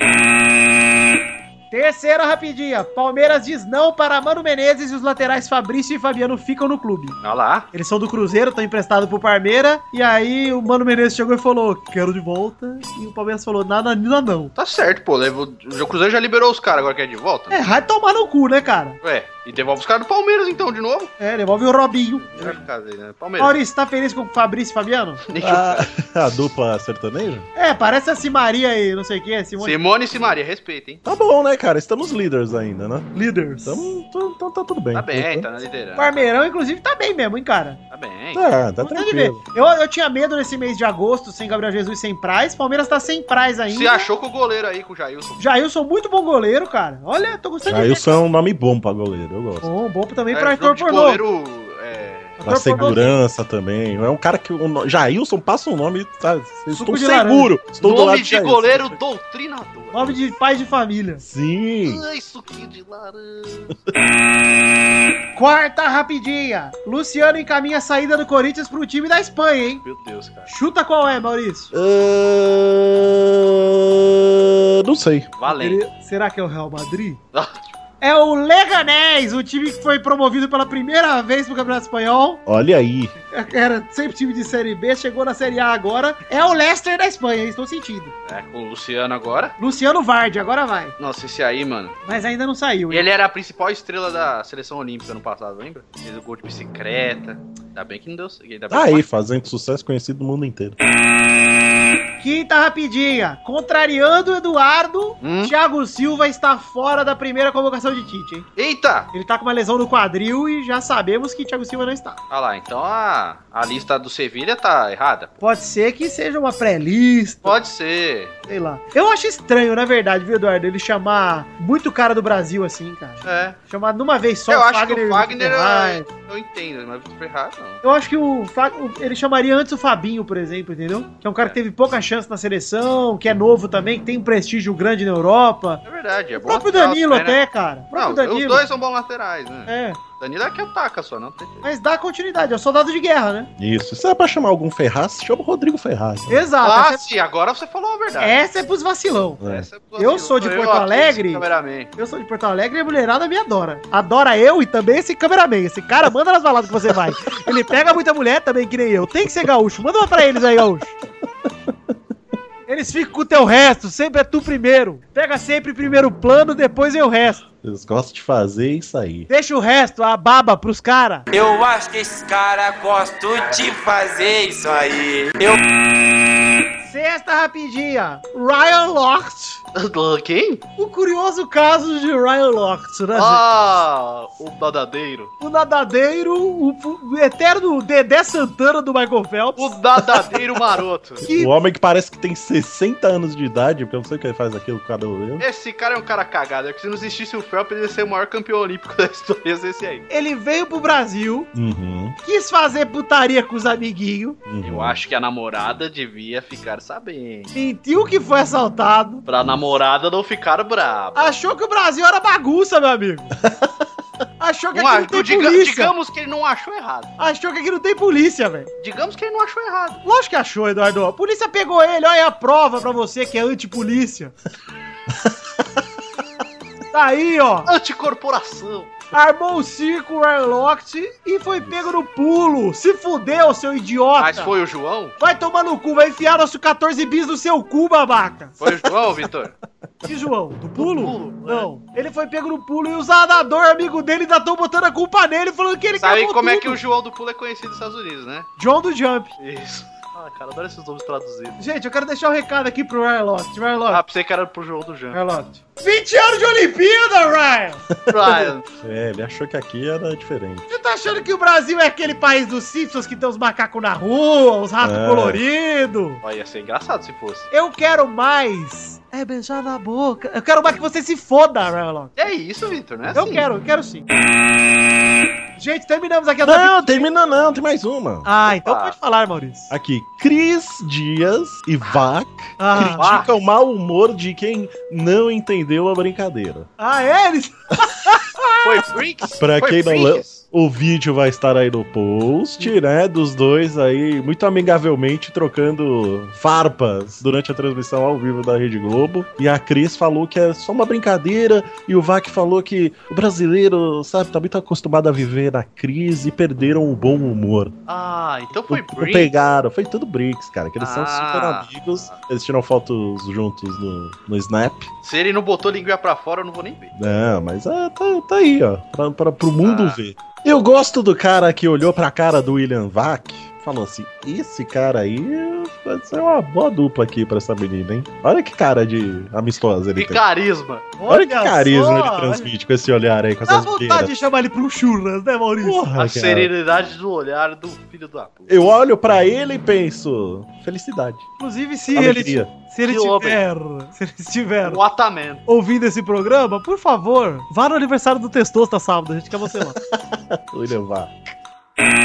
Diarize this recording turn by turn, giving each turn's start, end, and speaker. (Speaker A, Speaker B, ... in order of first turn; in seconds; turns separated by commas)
Speaker A: 1.7-7.2, Speaker B: 7.2-7.7, Speaker A: 7.7-14.5, Speaker B: 14.6-17.7, Speaker A: 17.5-19.0, Speaker B: 19.0-21.1, Speaker A: 21.2-22.6, Speaker B: 22.2-23.6, Speaker A: 23.4-25.2, Speaker B: 25.3-25.9, Speaker C: 25.4-27.5, Speaker A: 27.6-29.8, Speaker B: 29.6-31.0, Speaker C: 31.0-33.1, Speaker A: 33.1-33.9, Speaker C: 33.6-35.5, Speaker B: 34.9-36.2, Speaker A: 36.0-37.8, Speaker B: 37.9-38.4, Speaker C: 38.3-39.4, Speaker A: 38.8-44.1, Speaker B: 43.7-45.4, Speaker A: 45.4-48.2, Speaker C: 47.6-49.7, Speaker A: 49.6-51.2, Speaker B: 50.3-52.4, Speaker C: 52.4-59.0, Speaker A: 52.4-53.1, Speaker A: 56.7-57.5, Speaker B: 57.8-60.1, Speaker A: 59.9-61.2, Speaker C: 61.2-62.0, Speaker B: 61.9-63.8, Speaker A: 65.3-69.8, Speaker B: 69.8-70.5, Speaker A: 70.5-71.7, Speaker C: 71.7-75.3, Speaker B: 75.4-75.8, Speaker A: 75.5-77.2, Speaker B: 77.3-77.6, Speaker A: 78.0-82.4, Speaker C: 82.5-83.1, Speaker A: 83.3-88.1, Speaker B: 88.3-89.5, Speaker A: 89.6-90.9, Speaker B: 91.0-92.0, Speaker A: 92.0-93.0, Speaker B: 92.9-99.0, Speaker C: 98.7-100.8, Speaker A: 102.2-108.5, Speaker B: 105.2-105.5, Speaker B: 108.5-109.1, Speaker A: 109.1-112.2, Speaker B: 112.3-115.3, Speaker A: 115.4-117.6, Speaker B: 117.4-118.3, Speaker A: 118.5-126.0, Speaker B: 123.2-123.6, Speaker B: 124.5-127.8, Speaker A: 127.8-135.8, Speaker B: 135.8-137.4, Speaker A: 136.4-138.6, Speaker B: 137.9-141.7, Speaker A: 139.7-140.0, Speaker A: 141.6-143.5, Speaker C: 143.6-146.4, Speaker A: 146.3-147.0, Speaker B: 146.6-148.4, Speaker A: 148.2-149.4, Speaker C: 149.4-149.7, Speaker B: 149.4-151.9, Speaker A: 150.0-151.4, Speaker A: 152.0-160.9, Speaker A: 162.7-167.4, Speaker C: 167.6-169.3, Speaker A: 169.3-171.2, Speaker D: 171.3-175.6, Speaker A: 176.8-179.6, Speaker B: 179.7-180.6, Speaker A: 180.8-183.4, Speaker B: 183.1-185.3, Speaker A: 185.4-189.8, Speaker B: 189.6-191.2, Speaker C: 191.2-195.4, Speaker A: 191.2-191.5, Speaker B: 195.4-200.0, Speaker A: 200.1-201.5, Speaker C: 201.5-202.2, Speaker A: 202.2-204.4, Speaker C: 204.5-205.0, Speaker B: 204.6-207.5, Speaker A: 207.5-209.2, Speaker B: 209.3-211.3, Speaker A: 211.1-213.3, Speaker A: 214.4-215.9, Speaker B: 214.7-217.1, Speaker A: 217.2-218.7, Speaker B: 218.8-220.0, Speaker A: 220.0-224.3, Speaker A: 226.9-227.7, Speaker B: 227.7-228.9, Speaker A: 229.1-234.5, Speaker B: 234.2-235.1, Speaker A: 235.2-238.6, Speaker B: 238.6-239.6, Speaker A: 240.0-246.8, Speaker B: 240.8-241.7, Speaker B: 245.9-248.5, Speaker A: 248.6-249.3, Speaker B: 249.4-251.6, Speaker A: 251.6-254.0, Speaker B: 253.9-255.2, Speaker A: 255.1-257.8, Speaker C: 257.9-260.6, Speaker B: 258.1-258.6, Speaker A: 260.7-266.2, Speaker C: 264.8-265.4, Speaker B: 266.2-267.5, Speaker A: 267.5-272.1, Speaker B: 272.2-273.4, Speaker A: 273.1-274.0, Speaker A: 275.6-277.1, Speaker C: 276.4-278.3, Speaker A: 278.2-279.7, Speaker B: 278.6-278.9, Speaker C: 279.7-286.7, Speaker A: 282.6-283.1, Speaker B: 283.0-283.3, Speaker A: 286.8-288.7, Speaker B: 288.6-290.4, Speaker C: 289.4-307.7, Speaker B: 307.9-309.3, Speaker C: 308.7-314.9, Speaker B: 310.8-312.2, Speaker B: 315.0-316.9, Speaker C: 316.9-330.2, Speaker B: 319.6-320.0, Speaker B: 329.9-330.9, Speaker A: 331.0-332.5, Speaker C: 331.1-334.1, Speaker A: 333.5-335.8, Speaker C: 335.6-336.5, Speaker B: 335.9-338.6, Speaker C: 338.5-341.3, Speaker A: 341.4-344.8, Speaker C: 341.9-342.5, Speaker B: 342.9-343.4, Speaker B: 344.6-345.4, Speaker A: 345.5-349.8, Speaker C: 349.9-351.1